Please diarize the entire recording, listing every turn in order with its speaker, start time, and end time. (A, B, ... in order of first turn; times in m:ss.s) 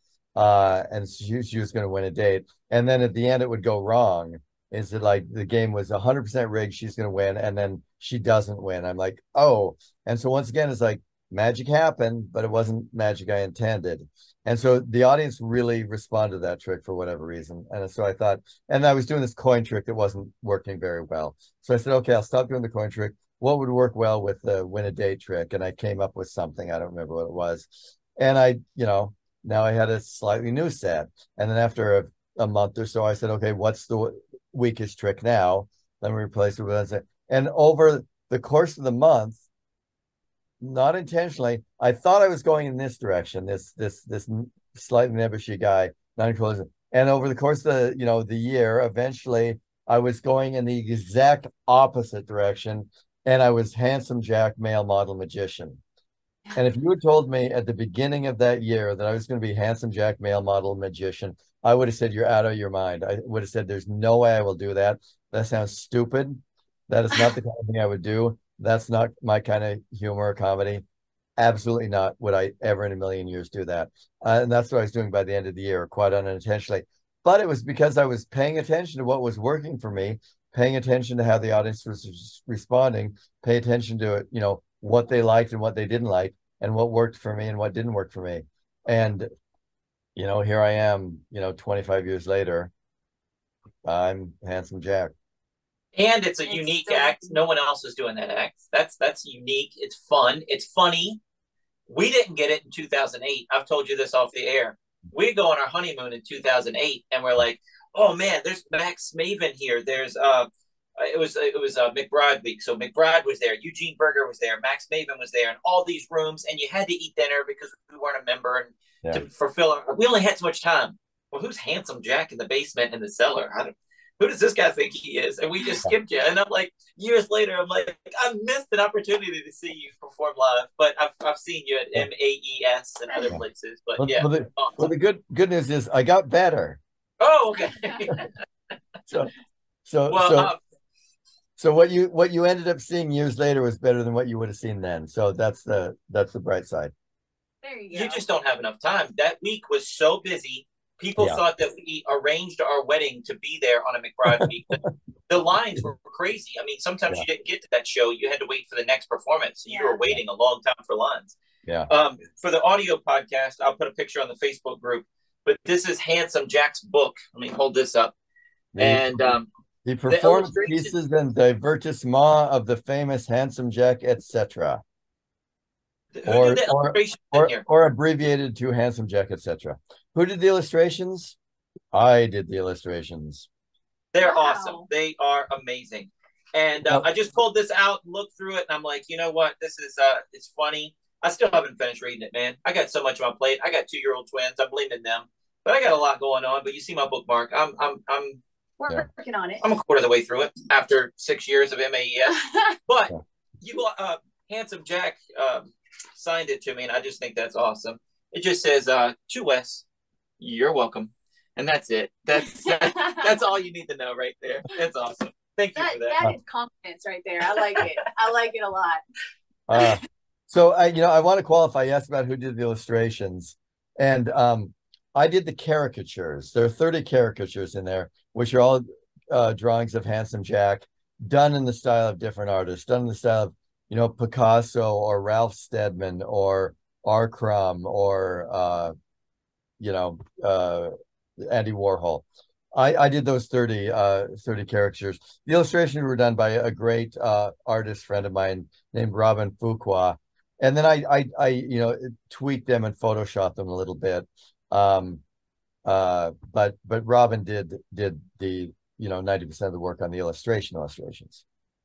0:00.4-0:39.4 A
0:40.6-0:55.8 A
0:56.5-1:10.8 A
1:11.4-1:29.3 A
1:30.2-1:32.7 A
1:33.8-1:35.1 A
1:35.9-1:41.2 B
1:36.5-1:37.3 C
1:41.9-2:14.9 B
2:14.0-2:16.8 A
2:17.2-2:18.3 B
2:19.1-2:19.3 A
2:19.8-2:20.5 A
2:20.1-2:20.6 B
2:21.6-2:26.9 A
2:27.6-2:28.2 C
2:27.9-2:41.4 B
2:34.4-2:34.9 A
2:39.7-2:40.0 C
2:41.9-2:48.2 B
2:48.7-2:49.3 A
2:48.8-2:49.5 B
2:49.8-2:54.8 A
2:50.1-2:50.9 B
2:56.2-2:57.6 B
2:56.3-3:01.4 A
3:01.9-3:03.5 A
3:04.1-3:18.4 B
3:04.2-3:04.8 C
3:18.8-3:19.6 C
3:19.6-3:29.8 B
3:22.3-3:22.7 C
3:30.4-3:36.2 B
3:32.5-3:33.2 C
3:35.8-3:39.0 C
3:39.7-3:58.9 A
3:59.8-4:15.2 A
4:15.8-4:21.4 A